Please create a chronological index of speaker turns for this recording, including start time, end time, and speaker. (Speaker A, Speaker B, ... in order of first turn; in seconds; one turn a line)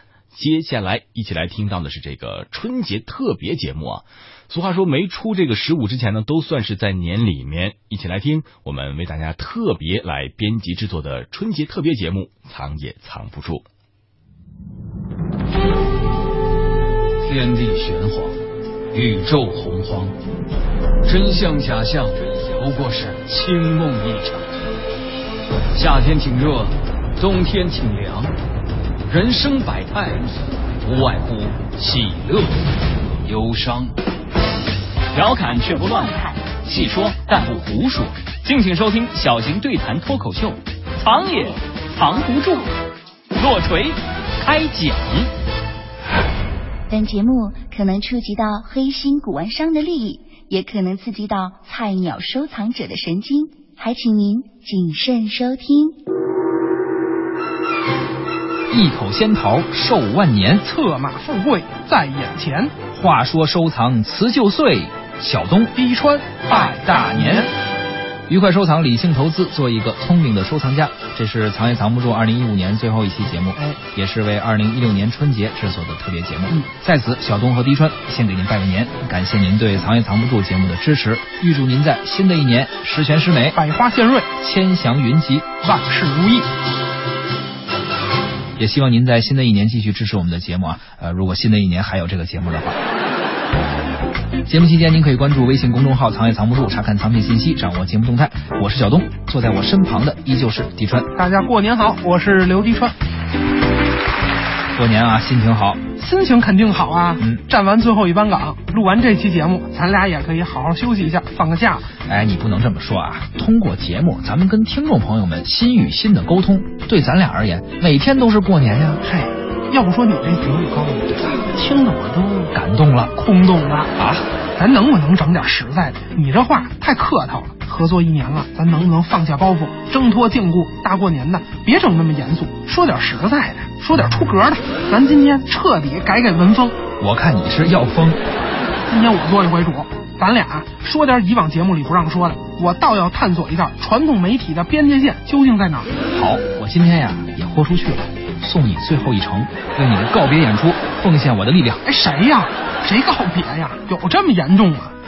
Speaker A: 0.3-13.7
Speaker B: 17.2-18.4
Speaker B: 18.9-20.1
Speaker B: 21.0-24.5
Speaker B: 25.7-28.4
Speaker B: 29.1-32.7
Speaker B: 33.3-33.9
Speaker C: 35.1-42.7
Speaker C: 43.4-45.3
Speaker D: 46.9-56.0
Speaker E: 58.7-60.7
Speaker F: 60.6-62.8
Speaker E: 62.9-65.7
Speaker F: 65.8-67.5
Speaker E: 66.5-67.5
Speaker E: 68.3-83.6
Speaker F: 83.5-84.3
Speaker E: 84.4-85.6
Speaker F: 85.6-86.5
Speaker E: 88.6-92.8
Speaker E: 94.5-101.1
Speaker F: 101.2-103.0
Speaker E: 104.7-105.8
Speaker F: 106.0-111.9
Speaker E: 112.1-119.0
Speaker F: 119.0-122.5
Speaker E: 122.5-123.1
Speaker F: 123.2-123.9
Speaker E: 124.0-124.3
Speaker F: 124.6-136.8
Speaker E: 137.0-138.2
Speaker F: 138.9-145.9
Speaker E: 146.1-151.8
Speaker F: 151.8-154.9